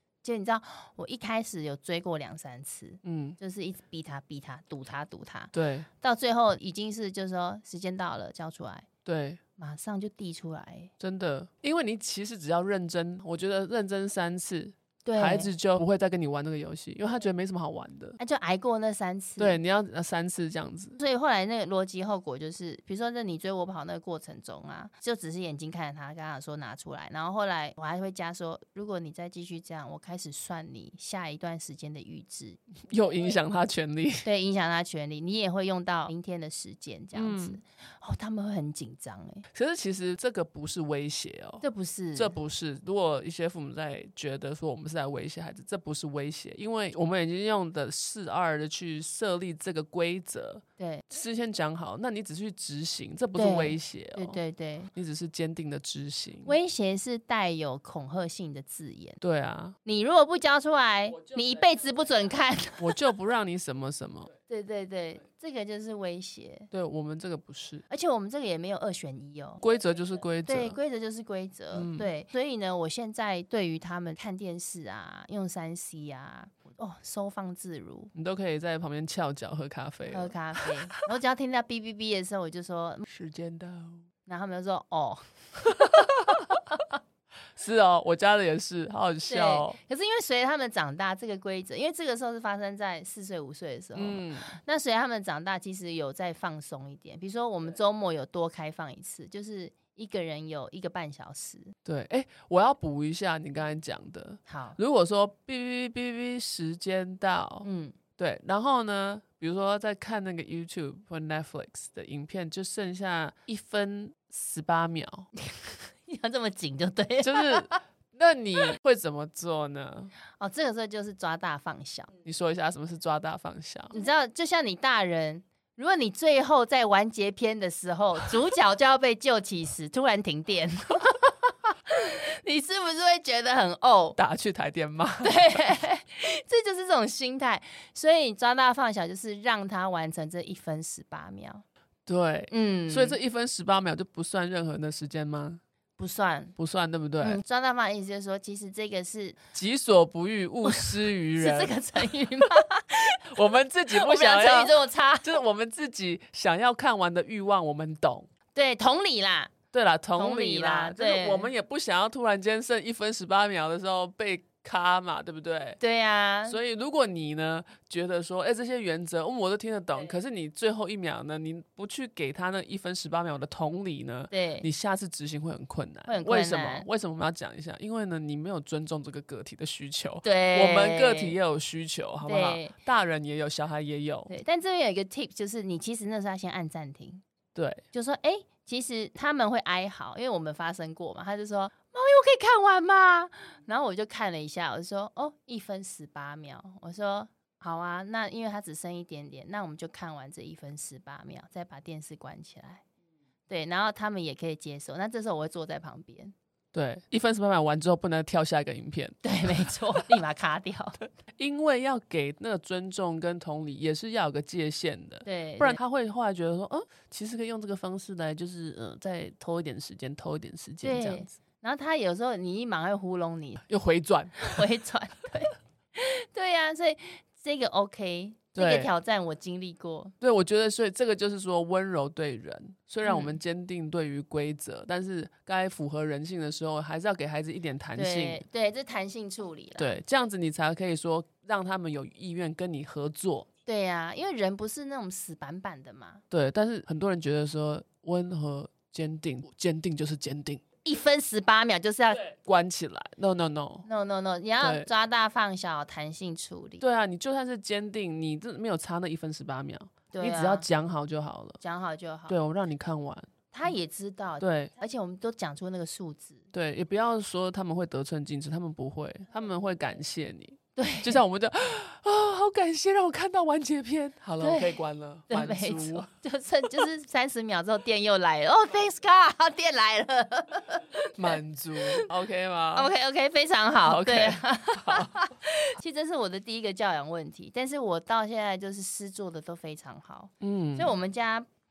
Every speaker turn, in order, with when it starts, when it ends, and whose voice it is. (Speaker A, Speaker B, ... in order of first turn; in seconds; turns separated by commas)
Speaker A: 0.2-8.9, Speaker B: 3.0-3.4, Speaker B: 5.5-5.9, Speaker B: 9.1-9.4, Speaker A: 9.6-10.9, Speaker B: 11.0-18.2, Speaker A: 15.1-15.5, Speaker A: 18.2-19.6, Speaker B: 19.4-21.0, Speaker A: 21.0-32.6, Speaker B: 32.9-34.3, Speaker A: 34.2-39.5, Speaker B: 37.1-37.6, Speaker B: 39.5-54.4, Speaker A: 41.6-42.4, Speaker A: 53.4-54.9, Speaker B: 55.0-56.6, Speaker A: 56.5-59.2, Speaker B: 59.2-59.8, Speaker A: 59.9-63.0, Speaker B: 62.8-64.3, Speaker A: 64.5-66.7, Speaker B: 66.7-67.8, Speaker A: 67.9-69.6, Speaker B: 69.6-70.8, Speaker A: 70.5-78.1, Speaker B: 71.7-72.1, Speaker B: 78.2-81.0, Speaker A: 80.1-83.1, Speaker B: 83.1-84.0, Speaker A: 84.3-85.8, Speaker B: 85.7-86.6, Speaker B: 87.6-89.8, Speaker A: 89.3-101.7, Speaker B: 94.0-94.6, Speaker B: 101.9-107.7, Speaker A: 104.5-104.8, Speaker A: 107.6-108.0, Speaker B: 108.2-115.3, Speaker A: 115.4-117.8, Speaker B: 117.2-120.1, Speaker A: 120.4-122.1, Speaker B: 122.2-124.0, Speaker A: 123.9-134.2, Speaker B: 134.2-135.4, Speaker A: 135.2-141.7, Speaker B: 142.1-145.6, Speaker A: 142.5-143.2, Speaker A: 146.0-146.6, Speaker B: 146.6-147.4, Speaker A: 147.2-149.4, Speaker B: 149.5-151.8, Speaker A: 150.6-153.2, Speaker B: 153.2-158.3, Speaker A: 153.9-155.4, Speaker A: 158.6-159.5, Speaker B: 159.7-165.8, Speaker A: 160.2-161.5, Speaker A: 165.8-166.6, Speaker B: 166.5-184.3, Speaker A: 174.3-174.7, Speaker A: 176.1-176.9, Speaker A: 180.2-181.4, Speaker A: 182.2-182.7, Speaker A: 184.3-187.2, Speaker B: 187.6-187.8, Speaker A: 187.9-202.8, Speaker A: 203.5-206.3, Speaker B: 206.7-210.1, Speaker A: 209.2-211.0, Speaker B: 211.4-221.3, Speaker A: 215.2-215.8, Speaker A: 220.8-223.6, Speaker B: 223.7-224.7, Speaker A: 224.4-230.1, Speaker B: 228.6-228.9, Speaker B: 230.2-238.4, Speaker A: 233.0-233.4, Speaker A: 238.0-240.0, Speaker B: 239.8-243.5, Speaker A: 243.7-246.2, Speaker B: 246.3-250.6, Speaker A: 250.8-252.2, Speaker B: 252.2-253.9, Speaker A: 253.9-256.8, Speaker B: 254.6-254.9, Speaker B: 256.8-261.6, Speaker A: 260.1-260.7, Speaker A: 261.6-262.4, Speaker B: 262.3-263.3, Speaker A: 263.5-266.4, Speaker B: 264.4-264.7, Speaker B: 266.5-276.1, Speaker A: 270.8-271.2, Speaker A: 274.4-282.1, Speaker B: 281.2-282.9, Speaker A: 282.8-291.5, Speaker B: 283.8-285.2, Speaker B: 290.4-290.9